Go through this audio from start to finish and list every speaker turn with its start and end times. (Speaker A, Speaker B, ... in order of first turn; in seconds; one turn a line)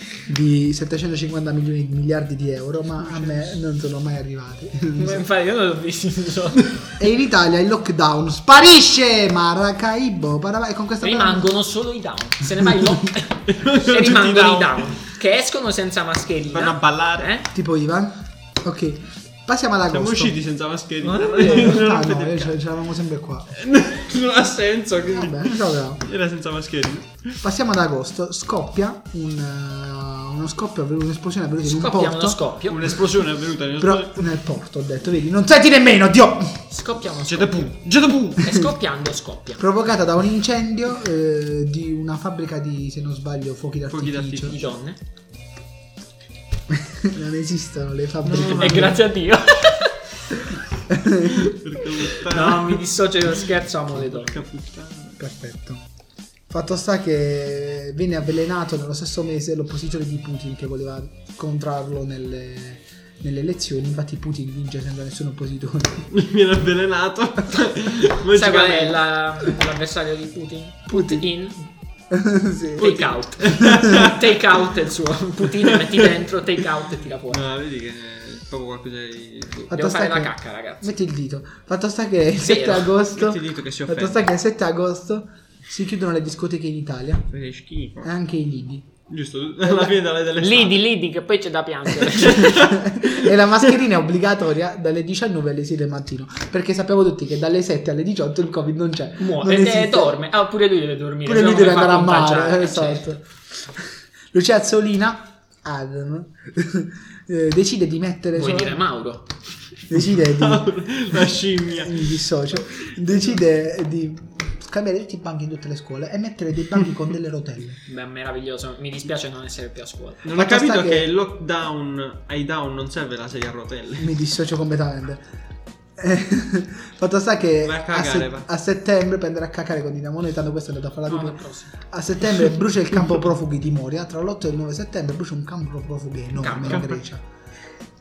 Speaker A: 0.3-5.3
Speaker B: 3.0-3.6
Speaker C: 5.0-6.7
Speaker A: 7.0-11.5
Speaker C: 11.0-17.5
Speaker B: 13.5-14.9
Speaker B: 16.5-17.3
Speaker A: 17.5-20.4
Speaker B: 19.9-22.5
Speaker A: 21.1-23.5
Speaker C: 21.4-21.7
Speaker B: 23.5-27.4
Speaker A: 25.1-26.0
Speaker A: 27.4-32.4
Speaker C: 31.6-32.9
Speaker B: 32.7-34.2
Speaker A: 33.8-36.6
Speaker C: 36.7-37.8
Speaker B: 37.3-38.5
Speaker C: 38.4-39.6
Speaker A: 39.6-44.6
Speaker B: 43.9-44.6
Speaker C: 44.5-45.0
Speaker A: 46.7-49.0
Speaker B: 48.2-49.0
Speaker C: 48.3-50.0
Speaker A: 50.9-51.5
Speaker B: 51.2-55.2
Speaker C: 52.1-54.4
Speaker A: 55.2-55.8
Speaker A: 56.5-66.1
Speaker B: 66.1-69.0
Speaker C: 68.3-71.6
Speaker A: 70.9-71.3
Speaker A: 72.1-73.0
Speaker C: 72.8-77.5
Speaker B: 72.8-74.4
Speaker A: 73.5-73.8
Speaker B: 75.6-76.2
Speaker B: 77.3-79.7
Speaker C: 79.7-80.9
Speaker A: 79.7-87.3
Speaker C: 82.4-82.9
Speaker B: 83.1-84.2
Speaker B: 87.3-88.1
Speaker A: 88.0-88.9
Speaker B: 89.1-90.9
Speaker C: 90.3-92.7
Speaker B: 92.1-93.3
Speaker A: 92.2-100.2
Speaker C: 99.2-103.2
Speaker A: 101.3-108.8
Speaker C: 108.3-109.3
Speaker A: 109.9-111.2
Speaker B: 110.2-112.1
Speaker A: 111.7-117.8
Speaker B: 112.7-113.2
Speaker C: 117.9-120.2
Speaker B: 120.2-124.2
Speaker A: 120.4-121.1
Speaker A: 124.0-125.2
Speaker A: 126.0-131.4
Speaker B: 127.6-128.5
Speaker C: 131.1-131.8
Speaker A: 131.9-137.2
Speaker C: 136.3-137.0
Speaker B: 136.6-137.0